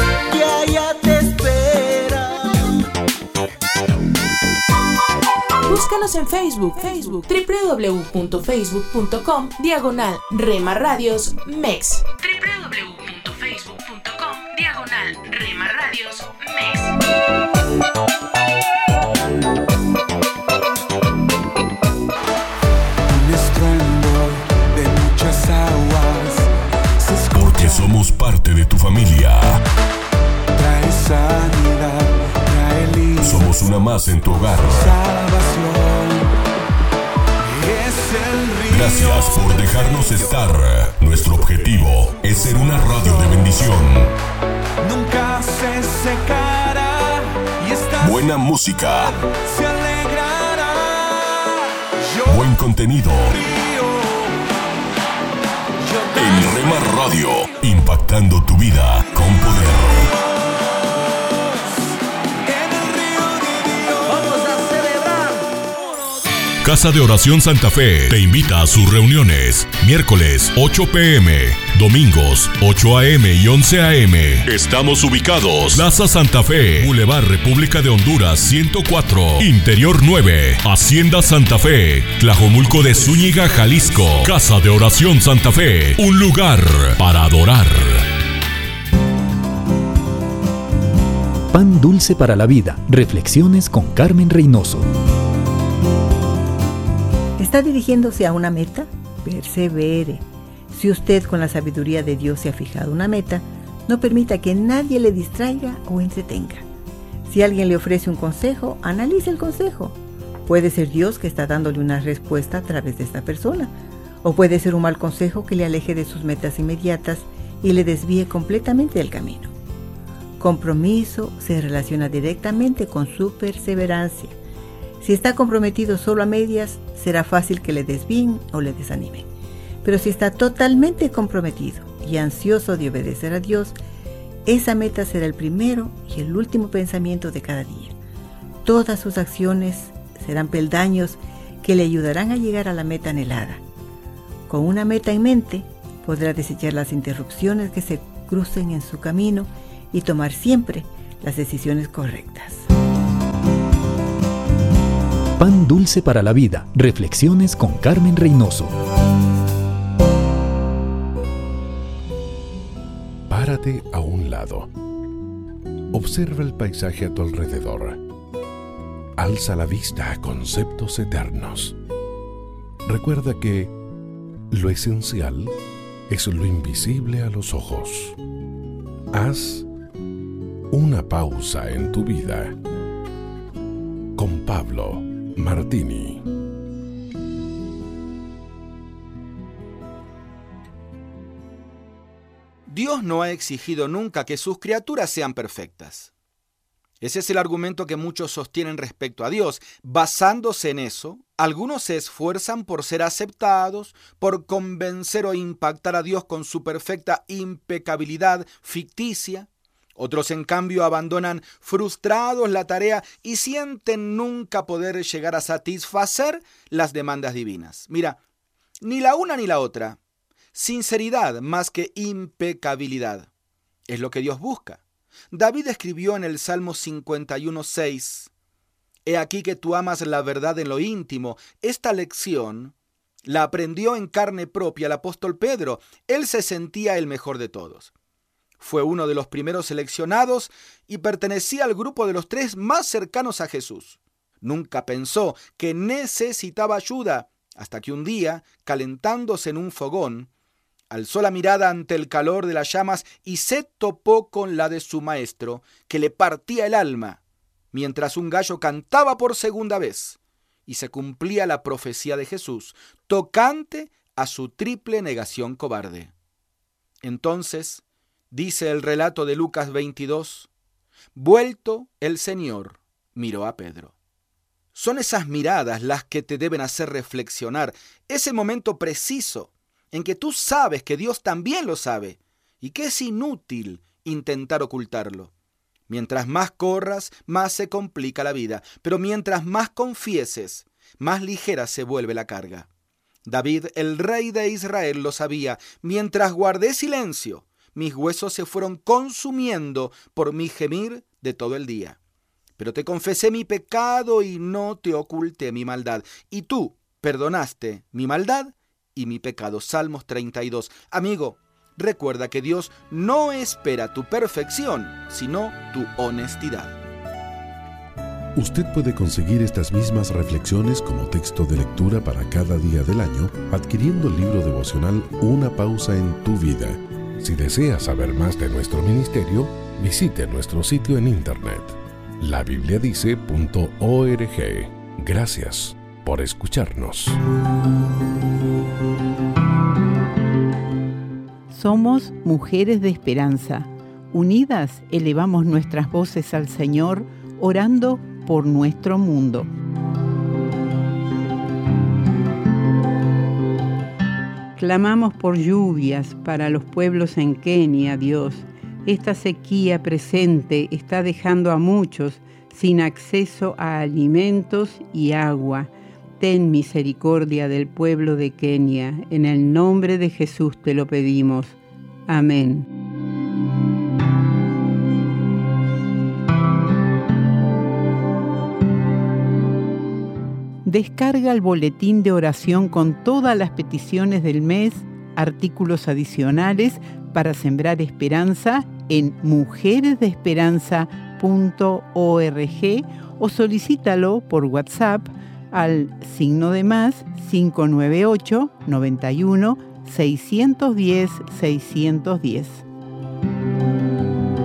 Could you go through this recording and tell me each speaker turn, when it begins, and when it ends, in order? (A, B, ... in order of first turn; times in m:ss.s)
0:05.6-0:16.9 A
0:23.1-0:26.5 B
0:27.0-0:27.9 B
0:27.3-0:29.6 C
0:30.6-0:33.4 B
0:33.2-0:35.0 C
0:34.7-0:36.3 B
0:37.6-0:39.4 B
0:38.7-0:44.1 C
0:44.8-0:48.3 B
0:48.0-0:49.2 C
0:49.4-0:51.6 B
0:52.1-0:52.5 B
0:52.3-0:53.4 C
0:53.3-0:54.3 B
0:55.8-0:56.8 B
0:56.2-1:00.1 C
1:02.4-1:04.6 B
1:06.6-1:28.0 D
1:31.5-1:34.9 E
1:37.4-1:46.6 F
1:47.3-1:53.7 F
1:54.2-1:59.5 F
2:00.4-2:04.4 F
2:05.0-2:09.3 F
2:09.8-2:13.8 F
2:14.5-2:17.9 F
2:18.6-2:23.6 F
2:24.5-2:32.6 F
2:35.4-2:38.8 E
2:43.3-2:44.7 G
2:45.9-2:48.0 G
2:49.2-2:51.8 G
2:52.9-2:53.7 G
2:54.5-2:55.5 G
2:56.1-2:58.2 G
2:59.1-2:59.7 G
3:00.7-3:02.6 G
3:04.2-3:06.2 G
3:12.7-3:16.1 H
3:17.0-3:38.2 H
3:38.8-3:40.0 H
3:40.6-3:43.3 H
3:43.9-3:44.8 H
3:45.3-3:48.3 H
3:49.1-3:52.7 H
3:53.3-3:57.9 H
3:58.6-4:10.3 H
4:10.9-4:17.2 H
4:17.7-4:26.1 H
4:27.0-4:27.8 H
4:28.3-4:30.5 H
4:31.2-4:33.9 H
4:34.8-4:45.3 H
4:45.9-4:52.7 H
4:53.3-5:02.0 H
5:02.6-5:16.8 H
5:18.4-5:37.2 G
5:41.5-5:49.5 I
5:54.6-6:05.7 I
6:06.2-6:11.5 I
6:12.1-6:12.6 I
6:20.7-6:42.6 I